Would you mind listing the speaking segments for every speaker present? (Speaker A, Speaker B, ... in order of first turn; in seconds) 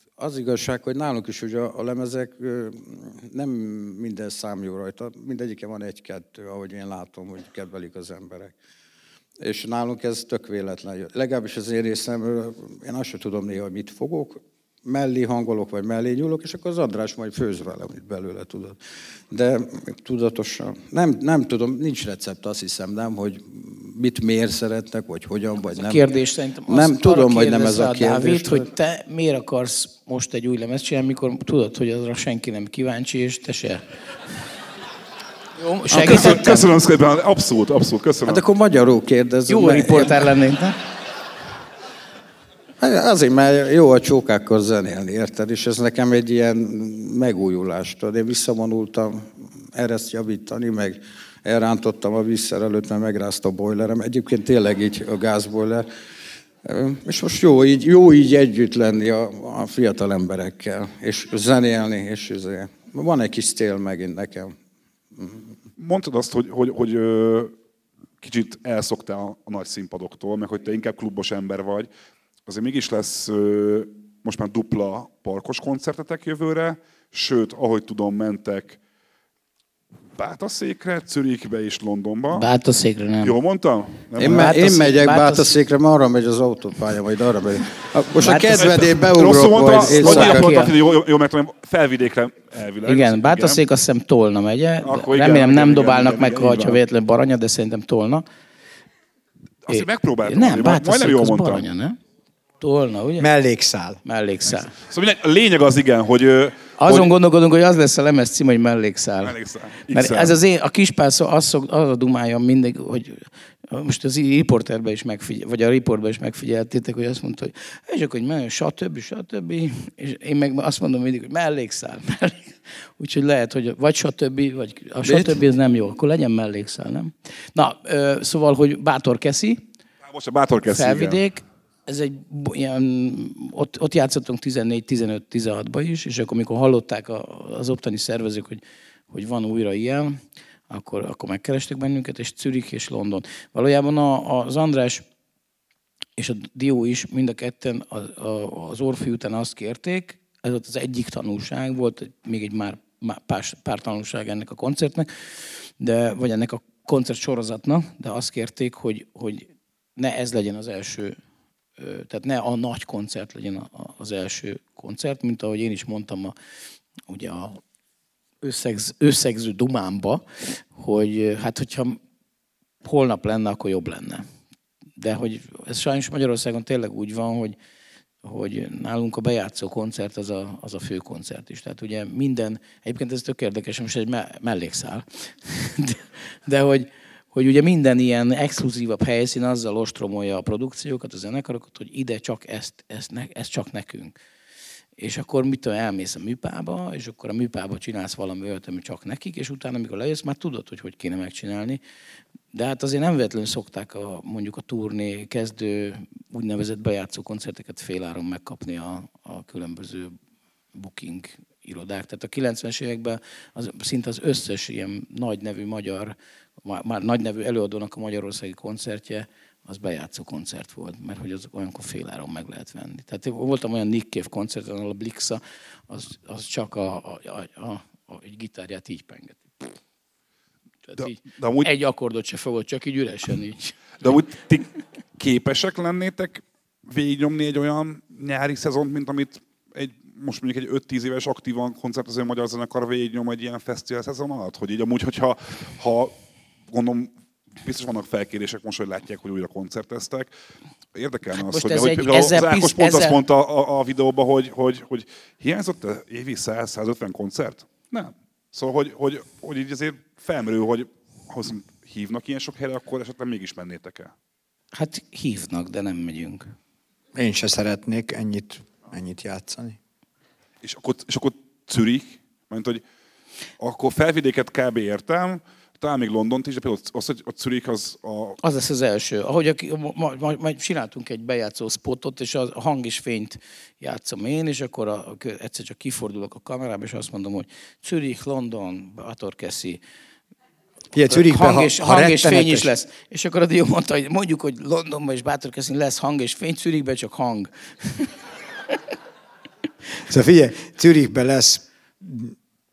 Speaker A: 0.2-8.5, 9.4-26.1, 26.7-28.7, 35.9-36.5, 38.2-40.3, 42.8-55.9, 56.6-64.5, 65.1-65.5, 84.2-90.6
Speaker B: 25.7-34.0, 35.6-36.7, 39.5-40.8, 82.3-83.3, 84.2-85.5, 88.2-88.8, 89.8-90.7, 92.8-98.2, 99.7-102.0, 102.6-103.3, 104.0-104.7, 106.8-109.3, 109.9-129.6, 130.7-145.1, 146.2-161.2, 161.8-166.3, 167.1-167.6, 168.4-172.0, 172.8-174.3, 175.0-177.6, 178.2-194.2, 195.0-201.8, 202.5-210.2, 210.7-229.7, 230.9-233.8, 251.3-253.2, 264.7-266.6, 278.4-289.8, 291.1-298.1
Speaker C: 36.0-38.5, 65.8-67.5, 68.2-71.9, 72.5-78.8, 80.2-82.5, 83.2-84.5, 88.5-93.6, 94.8-96.8, 99.7-101.7, 104.8-107.1, 109.2-110.4, 130.0-131.2, 231.0-231.7, 234.0-246.1, 246.7-250.3, 250.9-264.1, 270.6-272.8, 273.6-278.4
Speaker D: 103.2-104.0, 267.1-269.8, 290.9-292.7, 300.0-302.4